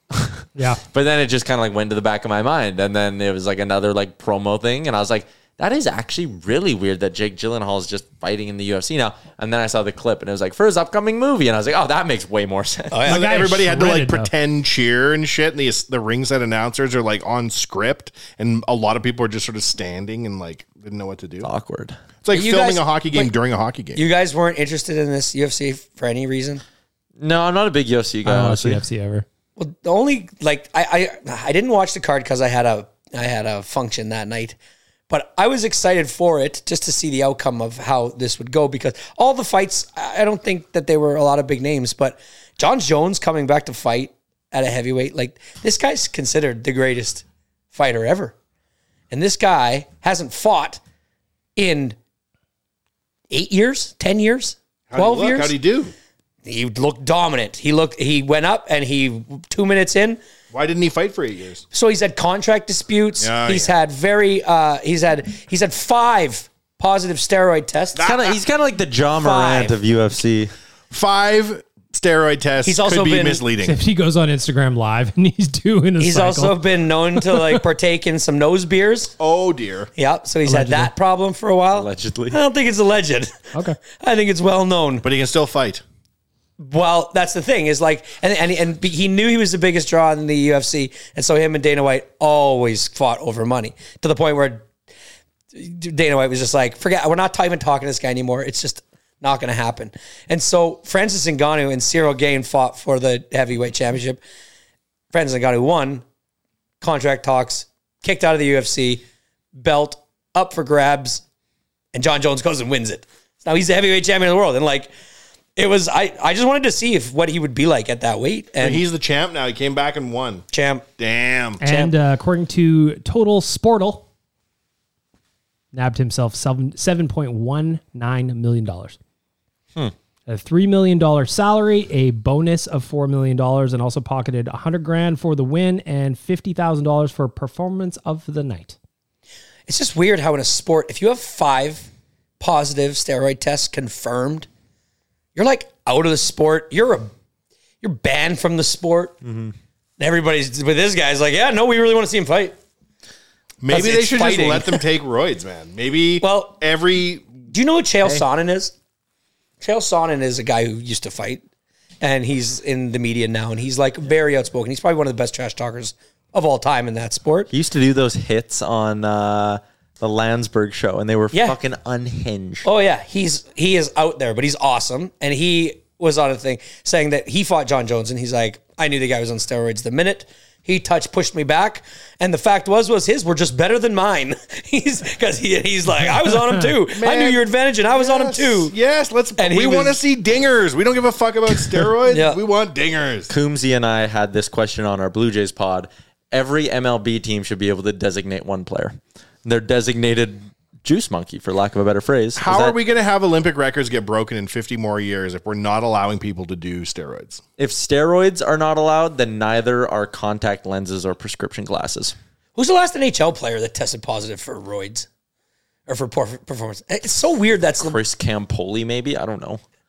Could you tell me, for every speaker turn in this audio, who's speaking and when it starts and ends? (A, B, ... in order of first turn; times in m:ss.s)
0:00.2-0:13.0 A
0:00.6-0:00.8 B
0:12.9-0:13.3 C
0:13.1-0:14.3 B
0:13.1-0:21.5 D
0:21.4-0:22.0 A
0:22.2-0:24.0 D
0:22.3-0:23.3 C
0:24.0-0:26.6 C
0:27.2-0:28.8 A
0:28.2-0:29.3 B
0:29.6-0:34.6 C
0:35.1-0:48.3 C
0:49.1-0:50.8 C
0:51.6-0:52.0 C
0:53.3-0:55.6 C
0:54.9-0:55.9 D
0:56.4-1:00.2 C
1:00.5-1:01.6 D
1:01.7-1:08.0 C
1:03.2-1:03.7 D
1:08.0-1:08.4 D
1:08.0-1:10.5 A
1:09.2-1:09.8 C
1:10.9-1:13.8 D
1:12.6-1:13.4 C
1:13.6-1:17.6 B
1:16.0-1:19.1 C
1:19.2-1:19.9 D
1:20.0-1:25.0 C
1:20.5-1:20.9 B
1:21.7-1:22.4 A
1:25.0-1:25.8 D
1:26.6-1:34.6 C
1:35.5-1:44.2 C
1:45.1-1:46.0 C
1:46.8-1:49.0 C
1:49.6-1:51.2 C
1:51.9-1:54.9 C
1:55.6-1:58.8 C
1:58.6-2:00.4 D
2:00.5-2:00.9 C
2:01.0-2:01.6 D
2:01.6-2:04.1 B
2:01.6-2:01.9 C
2:05.7-2:09.0 B
2:10.3-2:18.8 B
2:19.7-2:21.9 C
2:22.4-2:24.5 C
2:25.4-2:27.1 C
2:27.8-2:29.2 C
2:29.2-2:29.5 A
2:30.0-2:32.6 C
2:33.6-2:37.4 D
2:33.7-2:34.8 C
2:36.2-2:36.6 C
2:37.5-2:38.7 C
2:39.6-2:41.4 C
2:42.0-2:47.5 C
2:47.5-2:52.7 A
2:52.6-3:08.8 C
3:06.9-3:13.3 D
3:09.4-3:10.0 C
3:12.0-3:12.4 C
3:13.3-3:22.8 A
3:22.4-3:27.4 D
3:27.6-3:32.2 A
3:32.6-3:35.1 C
3:35.9-3:38.0 C
3:37.8-3:39.6 A